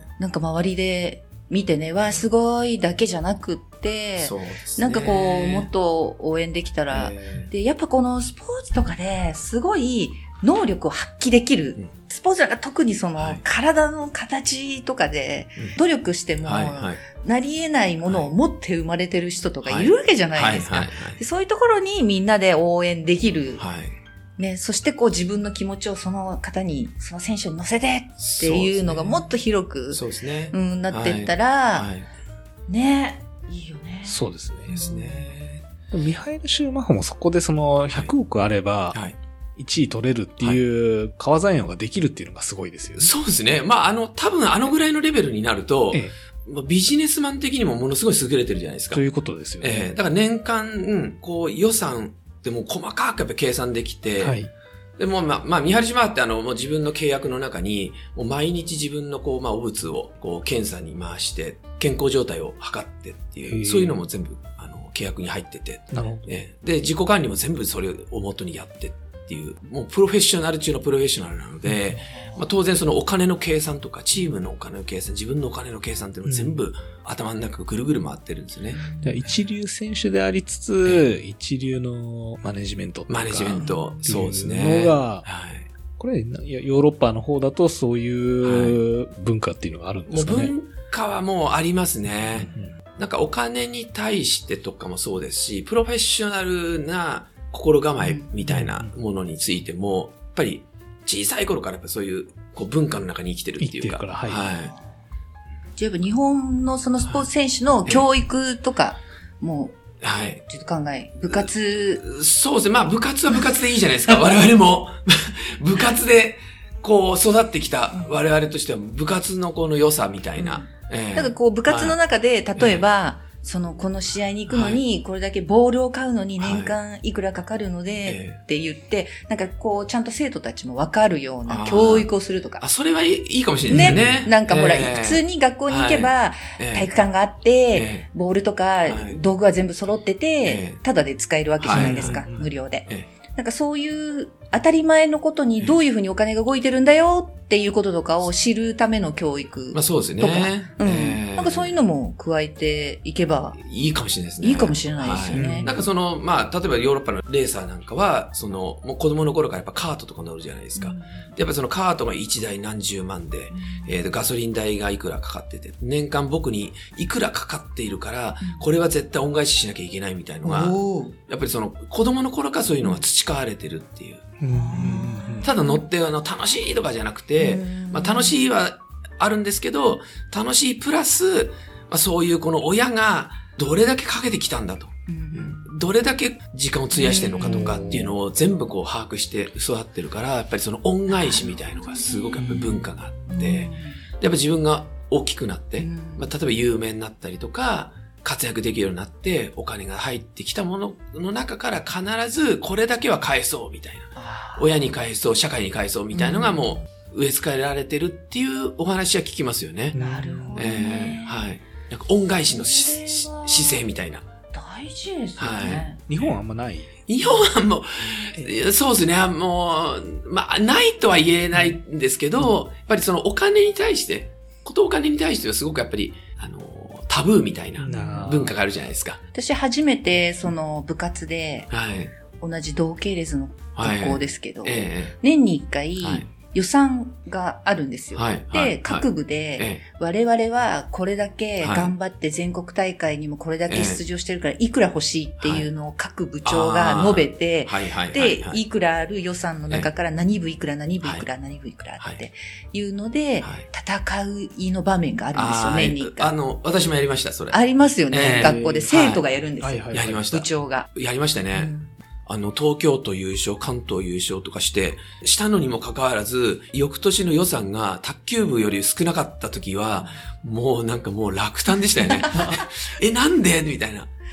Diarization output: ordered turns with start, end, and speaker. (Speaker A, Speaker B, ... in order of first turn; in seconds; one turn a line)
Speaker A: 0.2-23.6
Speaker B: 4.2-5.7
Speaker B: 6.9-7.5
Speaker B: 13.2-13.4
Speaker B: 16.4-17.0
Speaker B: 19.6-21.2
Speaker B: 23.6-23.9
Speaker A: 24.4-31.9
Speaker B: 28.2-29.3
Speaker B: 29.9-32.1
Speaker A: 32.7-35.4
Speaker C: 34.1-34.7
Speaker B: 34.7-35.6
Speaker C: 35.9-39.0
Speaker B: 38.9-39.2
Speaker C: 39.6-43.1
Speaker B: 43.0-49.1
Speaker C: 48.9-49.9
Speaker B: 49.6-54.4
Speaker C: 54.2-54.5
Speaker B: 55.0-78.8
Speaker C: 63.5-64.0
Speaker C: 65.9-66.3
Speaker A: 72.0-72.5
Speaker C: 76.3-76.6
Speaker A: 78.7-79.3
Speaker C: 79.0-85.2
Speaker B: 83.1-85.7
Speaker A: 83.6-84.1
Speaker C: 86.0-90.5
Speaker B: 88.4-88.8
Speaker B: 90.1-104.7
Speaker C: 92.3-92.8
Speaker A: 98.0-98.3
Speaker C: 98.7-98.9
Speaker C: 103.6-104.4
Speaker A: 104.5-104.9
Speaker A: 105.8-109.8
Speaker B: 110.0-110.4
Speaker A: 110.5-112.0
Speaker B: 112.0-122.0
Speaker A: 120.4-132.7
Speaker B: 122.6-122.8
Speaker B: 124.5-124.8
Speaker B: 126.4-126.7
Speaker B: 128.0-128.4
Speaker B: 131.5-136.9
Speaker A: 133.7-153.6
Speaker B: 137.7-138.1
Speaker B: 138.9-139.2
Speaker B: 140.4-140.8
Speaker B: 141.6-142.2
Speaker C: 141.7-142.5
Speaker B: 149.7-151.8
Speaker B: 153.6-174.3
Speaker A: 154.4-155.7
Speaker C: 155.4-155.7
Speaker A: 160.8-161.3
Speaker A: 163.5-163.9
Speaker A: 168.4-168.7
Speaker A: 170.4-171.2
Speaker C: 174.4-175.5
Speaker A: 174.5-175.8
Speaker B: 175.4-209.9
Speaker A: 177.4-178.4
Speaker A: 185.1-185.6
Speaker A: 186.9-188.1
Speaker A: 191.1-194.0
Speaker A: 195.8-196.3
Speaker A: 204.2-204.7
Speaker A: 206.1-206.7
Speaker C: 209.9-210.6
Speaker A: 209.9-211.4
Speaker B: 210.6-214.3
Speaker A: 212.5-213.8
Speaker A: 214.5-216.0
Speaker B: 215.4-216.3
Speaker C: 216.1-216.9
Speaker B: 217.1-229.2
Speaker C: 227.8-228.5
Speaker A: 227.9-228.4
Speaker A: 229.3-231.7
Speaker B: 231.7-232.1
Speaker A: 232.4-256.3
Speaker B: 233.8-235.2
Speaker B: 236.0-236.3
Speaker B: 238.1-239.1
Speaker B: 239.6-239.8
Speaker B: 241.6-241.9
Speaker B: 243.7-244.0
Speaker B: 245.4-245.7
Speaker B: 246.4-248.6
Speaker B: 253.4-253.7
Speaker B: 255.3-257.6
Speaker A: 257.5-260.9
Speaker B: 258.1-259.2
Speaker C: 258.4-258.9
Speaker C: 259.6-260.3
Speaker B: 259.9-261.7
Speaker A: 261.5-261.9
Speaker B: 262.3-274.1